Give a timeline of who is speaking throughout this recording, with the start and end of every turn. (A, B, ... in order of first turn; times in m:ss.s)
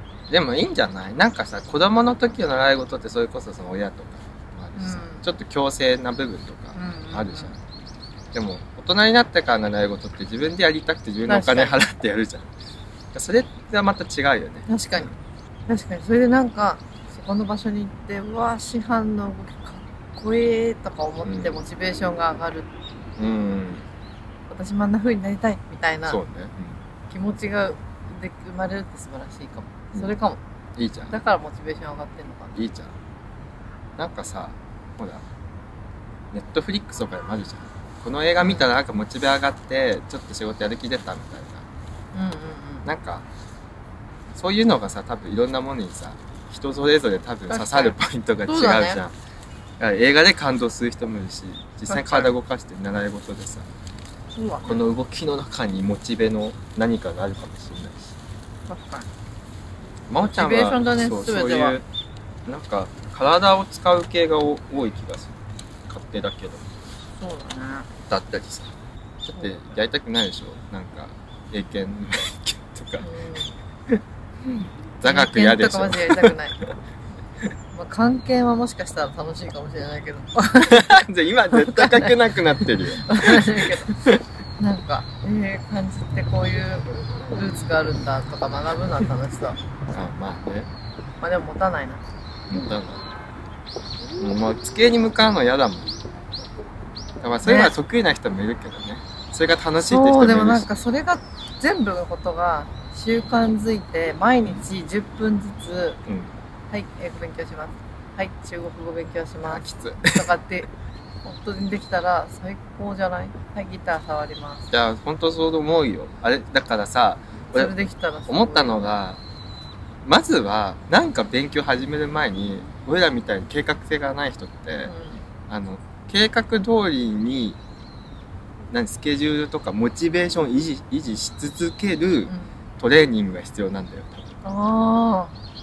0:00.3-0:07.6 A
0:04.8-0:05.3 B
0:06.8-0:07.5 B
0:08.3-0:12.5 A
0:11.3-0:11.8 B
0:13.1-0:15.0 A
0:14.7-0:15.1 B
0:15.7-0:22.7 B
0:21.2-0:21.5 A
0:23.2-0:23.9 A
0:24.5-0:26.2 B
0:26.1-0:26.8 A
0:27.1-0:30.4 B
0:30.8-0:31.1 A
0:31.1-0:32.6 B
0:32.6-0:32.9 A
0:34.0-0:35.2 A
0:36.3-0:41.6 A
0:38.4-0:38.7 B
0:42.1-0:42.9 B
0:42.8-0:43.2 A
0:44.3-0:49.1 A
0:47.5-0:49.0 B
0:49.8-0:53.7 A
0:51.9-0:52.3 B
0:54.4-0:54.8 B
0:54.6-0:58.2 A
0:58.7-0:59.1 B
1:00.1-1:01.9 A
1:00.2-1:01.8 B
1:02.4-1:05.4 A
1:05.9-1:06.6 A
1:07.2-1:07.9 B
1:08.1-1:08.7 A
1:09.2-1:13.1 A
1:13.0-1:13.6 B
1:15.0-1:16.7 A
1:15.0-1:16.6 B
1:17.7-1:23.9 B
1:20.6-1:24.2 A
1:24.6-1:29.6 B
1:29.9-1:30.7 A
1:31.2-1:32.0 B
1:32.5-1:33.0 A
1:34.2-1:36.0 A
1:37.2-1:40.7 A
1:37.4-1:37.7 B
1:39.8-1:46.0 B
1:46.1-1:46.3 A
1:46.7-1:50.7 B
1:49.5-1:50.3 A
1:51.2-1:54.7 B
1:54.7-1:57.8 A
1:57.5-1:58.9 B
1:58.3-1:59.2 A
2:00.0-2:04.9 A
2:04.8-2:05.2 B
2:05.5-2:07.6 A
2:08.7-2:14.4 A
2:14.4-2:15.3 B